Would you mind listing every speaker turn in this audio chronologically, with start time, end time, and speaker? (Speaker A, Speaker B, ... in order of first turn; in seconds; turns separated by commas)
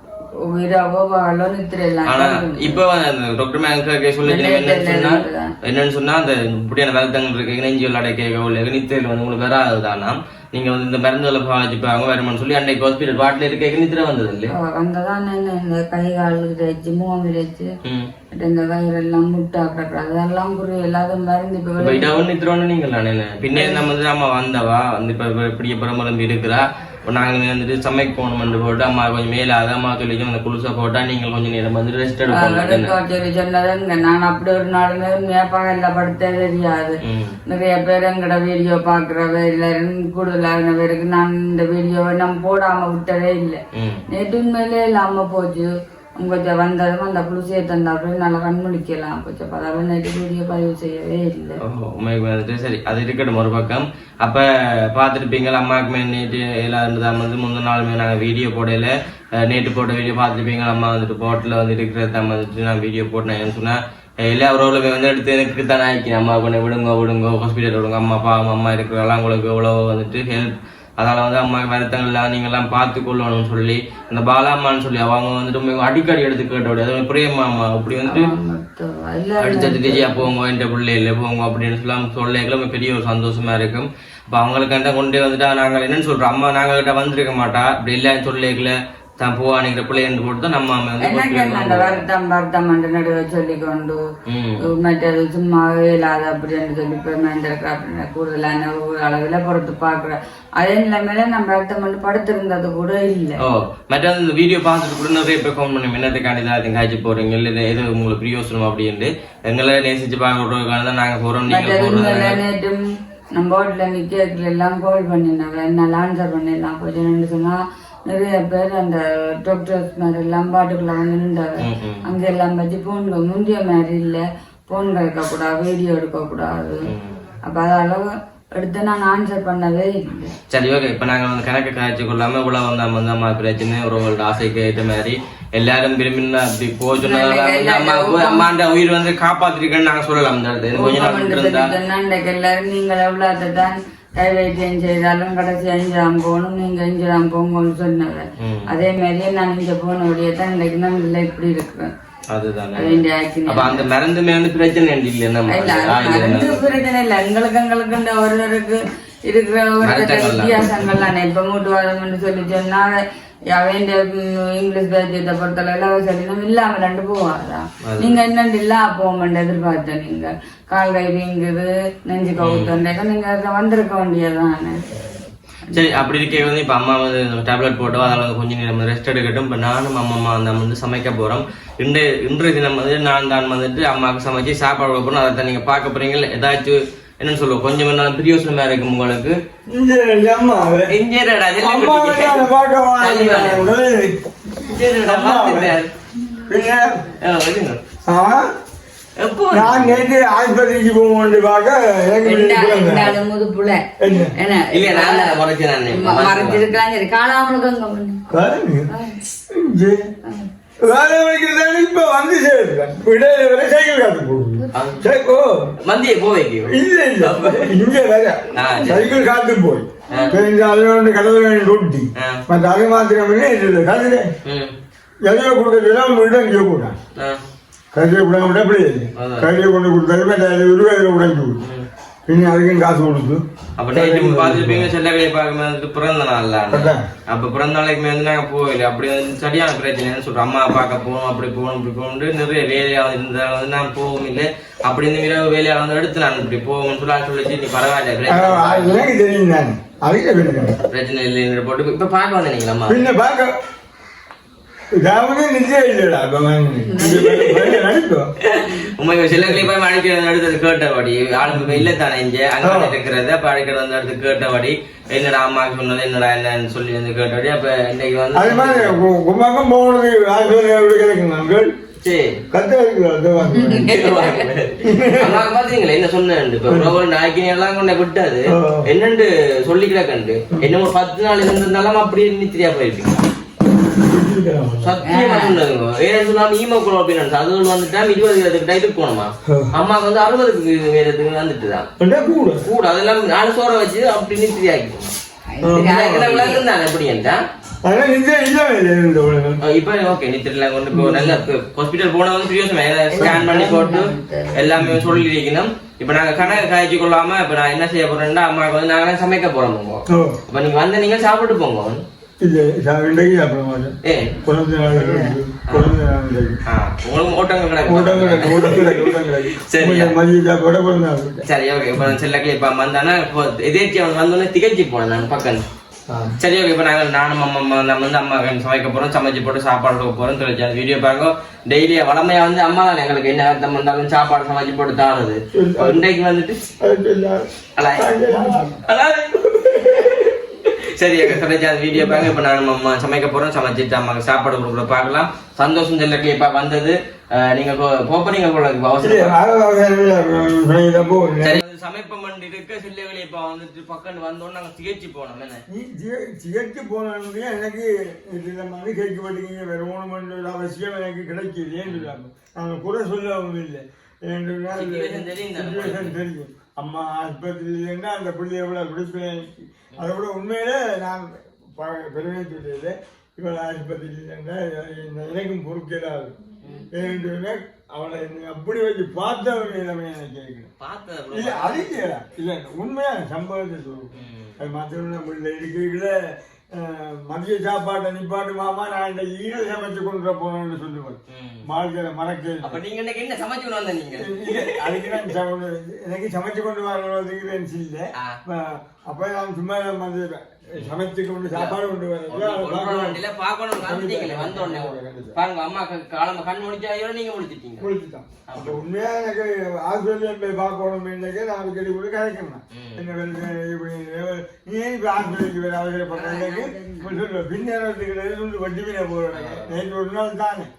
Speaker A: 0.5-2.8, Speaker B: 2.1-14.5, Speaker A: 4.2-5.5, Speaker A: 14.5-17.7, Speaker B: 17.8-18.1, Speaker A: 18.3-22.2, Speaker B: 21.8-32.9, Speaker A: 23.5-23.9, Speaker A: 32.3-51.6, Speaker B: 37.0-37.4, Speaker B: 43.7-44.0, Speaker B: 51.6-78.3, Speaker A: 78.1-80.3, Speaker B: 79.4-92.0, Speaker A: 91.0-94.0, Speaker B: 94.3-94.7, Speaker A: 94.7-103.4, Speaker B: 103.4-112.4, Speaker A: 111.5-112.8, Speaker A: 113.3-126.9, Speaker B: 121.6-122.1, Speaker B: 126.8-127.3, Speaker A: 127.5-130.3, Speaker B: 130.5-141.7, Speaker A: 137.0-138.5, Speaker A: 140.7-151.9, Speaker B: 148.4-148.7, Speaker B: 152.3-156.8, Speaker A: 152.8-153.9, Speaker A: 155.5-163.0, Speaker B: 159.8-160.9, Speaker A: 163.5-174.8, Speaker B: 167.8-168.2, Speaker B: 172.4-172.7, Speaker A: 175.7-176.2, Speaker B: 175.7-189.4, Speaker C: 189.7-190.9, Speaker B: 190.9-192.5, Speaker C: 191.6-194.2, Speaker B: 193.0-193.7, Speaker B: 194.6-195.9, Speaker C: 194.9-195.8, Speaker A: 196.2-196.7, Speaker C: 196.5-197.0, Speaker B: 197.2-197.8, Speaker C: 198.1-198.5, Speaker B: 199.2-200.1, Speaker C: 199.5-203.2, Speaker A: 202.2-208.3, Speaker C: 204.0-204.3, Speaker B: 204.7-206.7, Speaker C: 208.3-208.9, Speaker A: 208.9-209.2, Speaker C: 209.5-210.1, Speaker A: 210.2-210.5, Speaker C: 210.8-215.7, Speaker A: 214.6-215.1, Speaker B: 214.7-215.1, Speaker B: 215.8-217.7, Speaker C: 216.7-224.3, Speaker B: 218.5-219.2, Speaker B: 222.2-222.4, Speaker B: 224.4-224.7, Speaker C: 225.2-226.9, Speaker C: 227.9-231.6, Speaker B: 229.2-229.5, Speaker B: 231.6-231.9, Speaker C: 232.3-234.9, Speaker B: 233.8-249.1, Speaker C: 236.7-237.1, Speaker C: 248.3-250.8, Speaker B: 250.9-253.1, Speaker C: 252.9-253.5, Speaker C: 254.9-258.3, Speaker A: 256.8-257.3, Speaker B: 257.0-257.8, Speaker B: 258.4-269.0, Speaker C: 259.4-259.7, Speaker C: 261.5-261.9, Speaker C: 262.6-263.0, Speaker C: 268.3-271.7, Speaker B: 272.0-272.4, Speaker C: 272.5-274.0, Speaker A: 273.4-274.5, Speaker B: 273.7-283.2, Speaker C: 274.8-275.4, Speaker C: 276.7-277.0, Speaker C: 278.5-278.9, Speaker C: 284.0-284.9, Speaker B: 284.8-291.9, Speaker A: 285.0-285.6, Speaker C: 289.4-289.7, Speaker C: 292.0-292.7, Speaker B: 292.6-295.1, Speaker A: 295.5-296.6, Speaker C: 295.6-296.4, Speaker B: 295.8-297.4, Speaker C: 297.8-299.6, Speaker B: 299.6-312.0, Speaker C: 300.9-301.4, Speaker A: 303.1-304.6, Speaker C: 303.2-303.5, Speaker C: 304.8-305.2, Speaker C: 310.1-310.4, Speaker C: 312.4-316.6, Speaker B: 314.0-314.3, Speaker A: 314.9-315.4, Speaker B: 315.7-315.9, Speaker B: 316.6-320.1, Speaker C: 317.8-321.4, Speaker B: 321.4-325.6, Speaker C: 326.1-326.4, Speaker B: 326.4-336.6, Speaker C: 335.5-336.0, Speaker C: 336.8-338.7, Speaker B: 337.8-349.3, Speaker C: 339.4-340.4, Speaker C: 341.9-342.3, Speaker C: 349.0-351.6, Speaker B: 351.4-355.6, Speaker C: 355.7-376.3, Speaker B: 361.9-362.1, Speaker B: 364.7-366.2, Speaker B: 376.6-376.9, Speaker C: 376.9-380.7, Speaker B: 380.8-382.1, Speaker C: 381.3-386.1, Speaker B: 384.1-384.6, Speaker C: 386.7-392.8, Speaker B: 391.3-391.6, Speaker B: 392.6-395.3, Speaker C: 394.2-403.2, Speaker B: 401.5-407.9, Speaker C: 403.8-405.4, Speaker C: 407.8-420.7, Speaker B: 408.5-408.8, Speaker B: 412.7-413.1, Speaker A: 416.1-417.2, Speaker B: 419.3-419.8